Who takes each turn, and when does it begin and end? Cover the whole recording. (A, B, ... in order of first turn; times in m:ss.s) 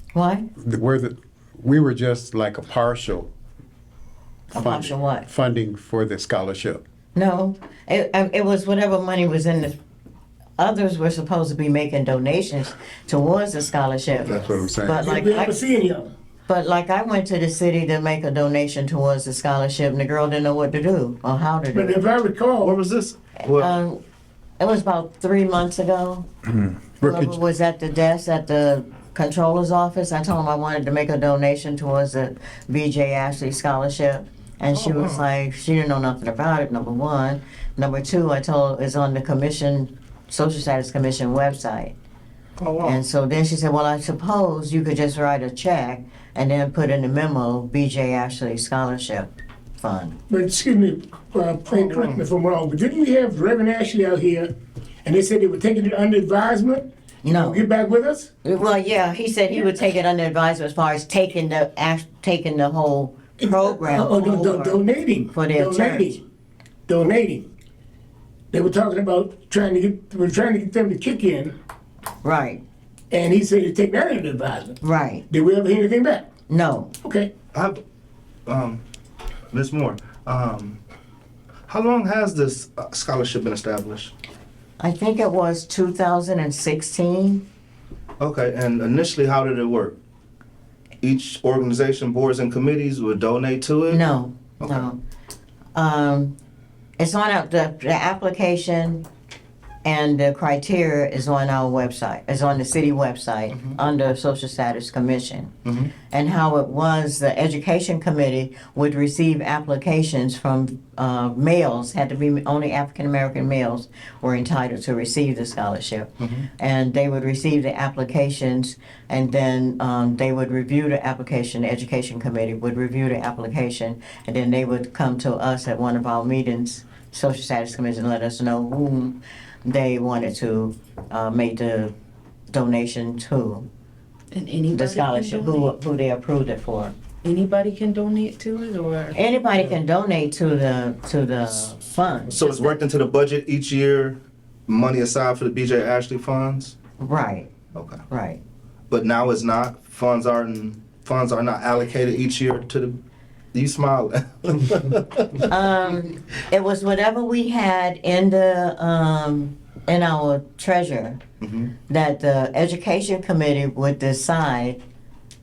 0:00.1-0:00.4 A
0:00.6-0:03.3 B
0:04.5-0:05.2 A
0:04.5-0:06.8 B
0:07.1-0:09.8 A
0:10.6-0:15.6 A
0:14.2-0:15.1 B
0:14.9-0:16.1 C
0:16.5-0:22.0 A
0:21.7-0:22.8 C
0:22.6-0:23.7 D
0:23.4-0:24.0 A
0:24.6-0:26.3 A
0:27.0-0:27.4 B
0:27.0-0:41.9 A
0:34.7-0:35.2 D
0:42.6-0:43.0 D
0:42.8-0:50.2 A
0:50.3-0:54.5 C
0:51.8-0:52.2 D
0:55.0-0:58.3 C
0:57.2-0:57.6 A
0:58.4-1:06.2 A
1:03.4-1:06.2 C
1:06.9-1:07.5 C
1:08.5-1:11.6 C
1:12.2-1:12.6 A
1:13.1-1:14.8 C
1:14.8-1:15.2 A
1:15.3-1:16.3 C
1:16.5-1:16.9 A
1:17.0-1:17.3 C
1:17.5-1:17.8 D
1:18.4-1:18.8 D
1:19.5-1:20.8 D
1:21.7-1:24.1 D
1:24.8-1:27.4 A
1:28.2-1:30.0 D
1:31.0-1:34.0 D
1:33.9-1:35.0 A
1:34.6-1:34.9 D
1:35.7-1:36.3 A
1:37.0-1:39.0 A
1:39.8-1:45.5 A
1:45.6-1:45.9 D
1:46.1-2:11.9 A
1:56.2-1:56.5 D
2:12.5-2:13.7 A
2:14.3-2:15.5 E
2:14.7-2:16.9 A
2:17.2-2:19.1 E
2:19.1-2:22.7 A
2:22.3-2:26.7 D
2:27.0-2:27.5 A
2:27.7-2:28.0 D
2:28.1-2:28.4 A
2:28.9-2:33.0 D
2:33.5-2:35.5 D
2:35.5-2:41.2 A
2:41.4-2:41.7 D
2:41.9-2:44.8 A